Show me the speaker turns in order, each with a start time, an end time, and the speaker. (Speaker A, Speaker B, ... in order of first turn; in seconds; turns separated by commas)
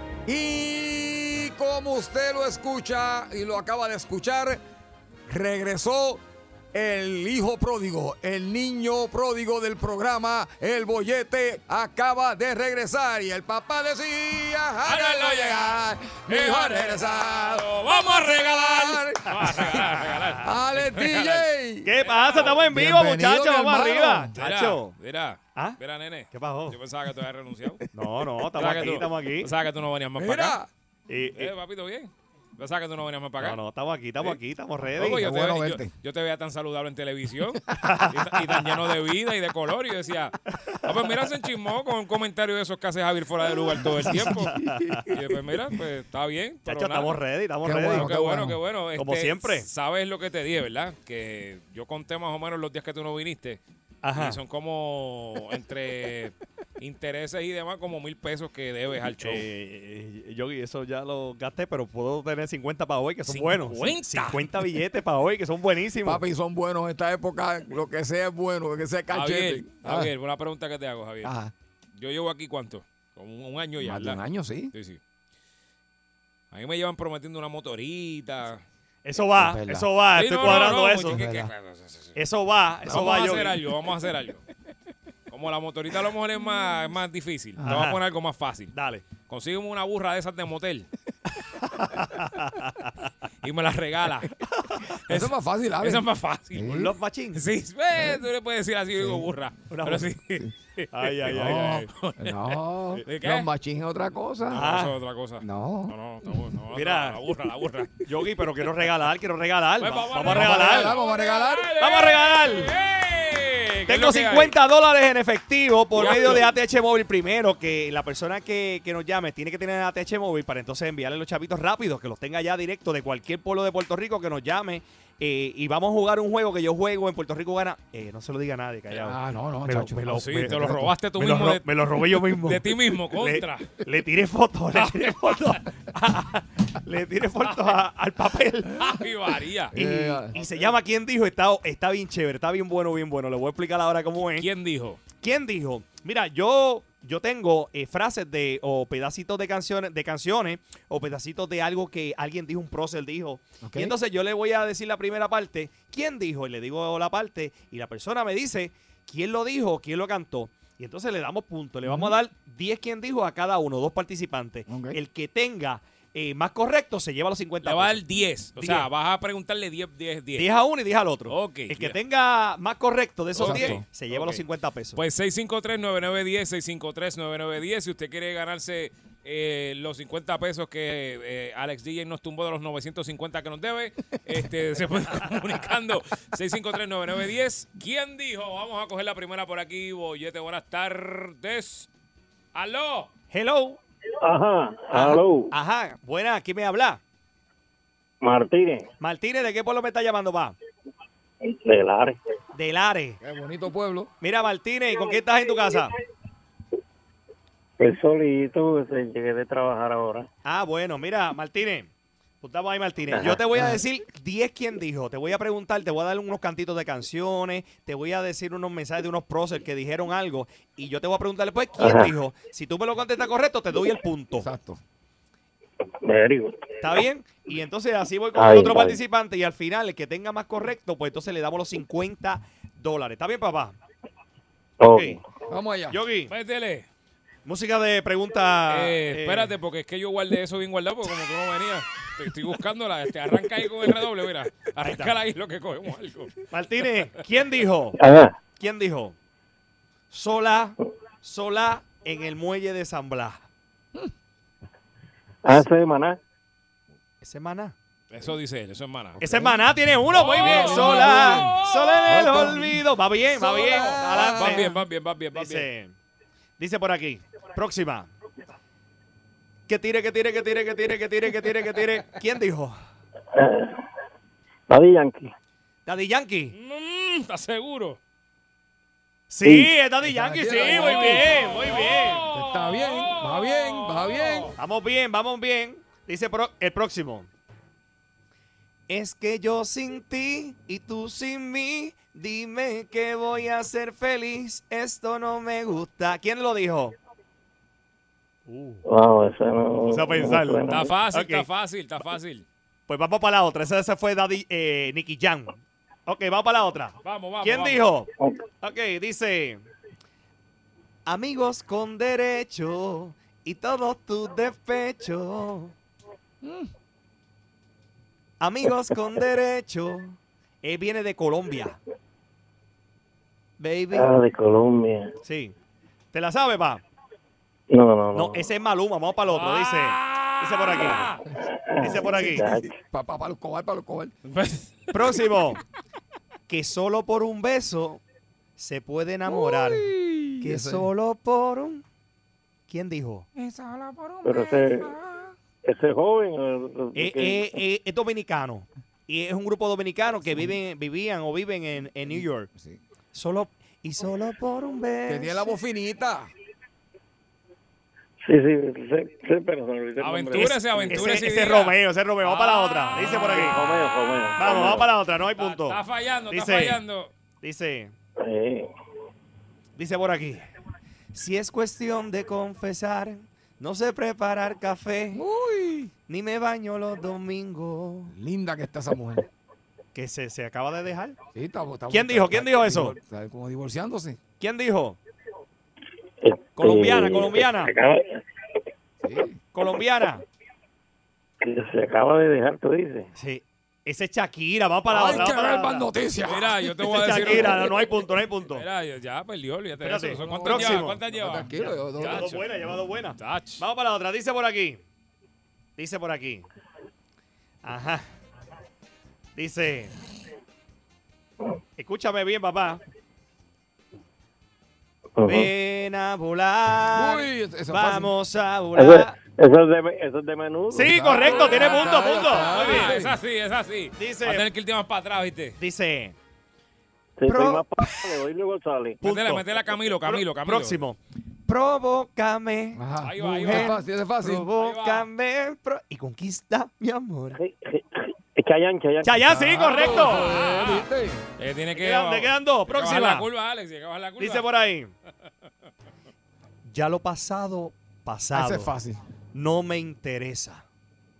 Speaker A: 0.2-4.6, Speaker A: 5.3-6.2, Speaker A: 6.7-24.3, Speaker B: 14.8-21.4, Speaker C: 19.6-20.4, Speaker C: 21.9-24.9, Speaker B: 22.0-22.7, Speaker B: 24.4-27.8, Speaker C: 26.3-26.8, Speaker C: 27.9-29.5, Speaker B: 28.5-30.6, Speaker A: 30.1-30.7, Speaker C: 31.1-31.5, Speaker B: 31.3-33.6, Speaker C: 33.4-35.3, Speaker B: 34.9-44.5, Speaker A: 35.1-35.9, Speaker C: 37.8-38.8, Speaker A: 43.7-45.2, Speaker C: 44.0-45.1, Speaker B: 45.1-47.2, Speaker C: 46.6-48.1, Speaker A: 47.6-48.6, Speaker B: 47.7-53.6, Speaker C: 49.0-49.7, Speaker C: 54.0-54.4, Speaker B: 54.1-59.5, Speaker C: 59.1-66.2, Speaker B: 63.3-64.5, Speaker A: 66.0-70.1, Speaker B: 69.1-71.3, Speaker A: 71.2-71.5, Speaker B: 71.9-74.2, Speaker A: 73.8-74.7, Speaker B: 74.7-75.0, Speaker B: 76.5-78.6, Speaker C: 79.0-81.2, Speaker A: 79.3-81.5, Speaker B: 80.1-82.2, Speaker C: 82.2-83.6, Speaker B: 82.9-84.4, Speaker B: 85.3-90.9, Speaker C: 87.6-88.0, Speaker C: 88.7-89.1, Speaker C: 91.6-92.9, Speaker B: 93.4-94.4, Speaker A: 95.1-96.9, Speaker B: 95.1-103.5, Speaker C: 96.7-97.4, Speaker A: 97.9-98.2, Speaker A: 99.0-99.3, Speaker C: 99.7-100.1, Speaker C: 100.9-101.8, Speaker A: 101.2-104.7, Speaker B: 104.5-108.0, Speaker C: 104.5-105.0, Speaker A: 105.4-105.9, Speaker C: 106.7-107.2, Speaker C: 108.0-110.9, Speaker B: 109.8-114.5, Speaker A: 110.2-111.7, Speaker C: 111.8-112.7, Speaker C: 113.9-138.7, Speaker B: 115.9-116.4, Speaker A: 128.9-130.9, Speaker B: 130.1-133.7, Speaker B: 134.7-135.6, Speaker B: 137.4-137.8, Speaker B: 138.7-140.6, Speaker A: 139.7-140.3, Speaker C: 139.8-144.5, Speaker B: 144.4-145.0, Speaker C: 145.1-168.0, Speaker A: 153.6-154.0, Speaker A: 161.8-162.2, Speaker A: 164.7-165.0, Speaker B: 167.6-170.5, Speaker C: 168.6-168.9, Speaker C: 170.3-175.0, Speaker B: 171.3-172.0, Speaker A: 173.3-173.8, Speaker B: 173.3-174.4, Speaker B: 174.9-191.9, Speaker B: 192.5-193.1, Speaker C: 193.3-193.8, Speaker D: 194.2-195.5, Speaker C: 194.9-197.0, Speaker D: 198.2-198.9, Speaker C: 199.0-200.6, Speaker D: 201.4-202.2, Speaker C: 202.5-203.2, Speaker A: 203.2-204.1, Speaker C: 204.2-205.9, Speaker D: 207.8-210.3, Speaker C: 210.4-211.9, Speaker C: 212.4-224.5, Speaker D: 213.1-213.7, Speaker A: 213.5-213.8, Speaker D: 221.8-222.1, Speaker A: 224.3-224.8, Speaker D: 226.0-227.0, Speaker C: 226.8-233.8, Speaker D: 228.3-229.0, Speaker D: 234.8-235.2, Speaker C: 234.9-235.2, Speaker A: 235.5-236.0, Speaker C: 235.9-236.3, Speaker B: 236.3-236.9, Speaker C: 237.4-239.5, Speaker B: 238.7-246.3, Speaker C: 244.8-245.1, Speaker C: 246.5-247.9, Speaker D: 247.9-248.4, Speaker C: 248.5-249.2, Speaker C: 250.1-253.4, Speaker D: 255.4-256.2, Speaker C: 257.2-257.7, Speaker B: 258.1-259.2, Speaker A: 259.2-259.7, Speaker C: 259.2-264.8, Speaker B: 260.1-262.6, Speaker A: 260.3-264.7, Speaker B: 263.4-265.7, Speaker C: 265.3-265.9, Speaker C: 266.6-268.1, Speaker C: 269.7-272.8, Speaker D: 273.3-273.8, Speaker D: 274.7-275.3, Speaker C: 275.9-276.6, Speaker B: 276.5-278.0, Speaker C: 279.3-282.3, Speaker D: 279.4-279.7, Speaker A: 280.0-281.4, Speaker B: 280.5-284.5, Speaker A: 282.3-284.5, Speaker C: 284.6-287.3, Speaker C: 288.9-296.9, Speaker C: 298.4-298.8, Speaker D: 298.8-300.9, Speaker C: 299.8-301.5, Speaker B: 300.7-302.4, Speaker C: 302.9-308.1, Speaker B: 307.0-307.9, Speaker C: 308.6-309.6, Speaker C: 311.1-315.7, Speaker A: 316.4-316.7, Speaker C: 318.4-321.8, Speaker C: 323.6-324.1, Speaker D: 323.9-325.1, Speaker C: 325.2-325.5, Speaker C: 326.1-326.8, Speaker D: 327.7-328.5, Speaker C: 328.1-331.1, Speaker B: 329.3-331.2, Speaker D: 331.7-332.7, Speaker C: 331.8-332.5, Speaker A: 332.9-334.1, Speaker B: 334.3-335.0, Speaker C: 334.9-335.6, Speaker C: 336.5-338.0, Speaker C: 338.6-339.9, Speaker A: 339.3-340.9, Speaker C: 340.4-341.8, Speaker C: 342.7-343.3, Speaker A: 343.3-345.3, Speaker D: 344.2-344.9, Speaker D: 345.6-347.6, Speaker C: 346.9-352.5, Speaker A: 350.2-350.6, Speaker A: 352.0-352.8, Speaker C: 353.1-355.5, Speaker A: 355.1-356.3, Speaker D: 358.2-361.1, Speaker B: 360.0-363.5, Speaker C: 360.4-363.6, Speaker D: 363.0-364.9, Speaker C: 364.4-366.8, Speaker B: 365.4-367.1, Speaker C: 367.4-367.9, Speaker D: 368.2-368.7, Speaker C: 369.8-370.4, Speaker C: 371.1-375.2, Speaker A: 375.1-375.9, Speaker C: 376.1-378.1, Speaker A: 378.1-379.3, Speaker C: 379.9-381.2, Speaker A: 381.3-384.2, Speaker C: 381.9-383.0, Speaker C: 384.4-385.0, Speaker D: 386.2-388.2, Speaker C: 386.6-387.7, Speaker A: 389.0-389.4, Speaker C: 389.5-390.2, Speaker D: 391.4-393.1, Speaker C: 393.1-395.9, Speaker A: 394.9-397.5, Speaker B: 396.2-397.8, Speaker C: 396.8-398.6, Speaker B: 398.5-402.5, Speaker C: 399.8-401.0, Speaker A: 400.2-402.4, Speaker C: 402.0-404.8, Speaker B: 403.1-403.6, Speaker C: 405.8-406.5, Speaker C: 407.6-408.1, Speaker C: 409.4-409.9, Speaker C: 411.8-412.8, Speaker D: 415.2-415.5, Speaker C: 415.2-419.1, Speaker A: 416.9-418.1, Speaker D: 418.7-421.0, Speaker C: 420.7-423.0, Speaker A: 420.8-423.1, Speaker B: 421.2-425.6, Speaker C: 424.0-424.4, Speaker C: 425.6-426.1, Speaker D: 427.2-429.0, Speaker C: 427.2-428.0, Speaker B: 429.0-430.8, Speaker C: 429.0-432.8, Speaker A: 432.7-434.5, Speaker B: 433.0-433.8, Speaker C: 433.4-437.4, Speaker B: 434.6-435.1, Speaker D: 437.3-439.3, Speaker C: 439.0-440.3, Speaker A: 439.2-441.2, Speaker B: 439.8-444.5, Speaker C: 441.7-443.3, Speaker C: 444.2-444.9, Speaker C: 446.6-448.7, Speaker A: 448.3-449.0, Speaker C: 449.3-450.6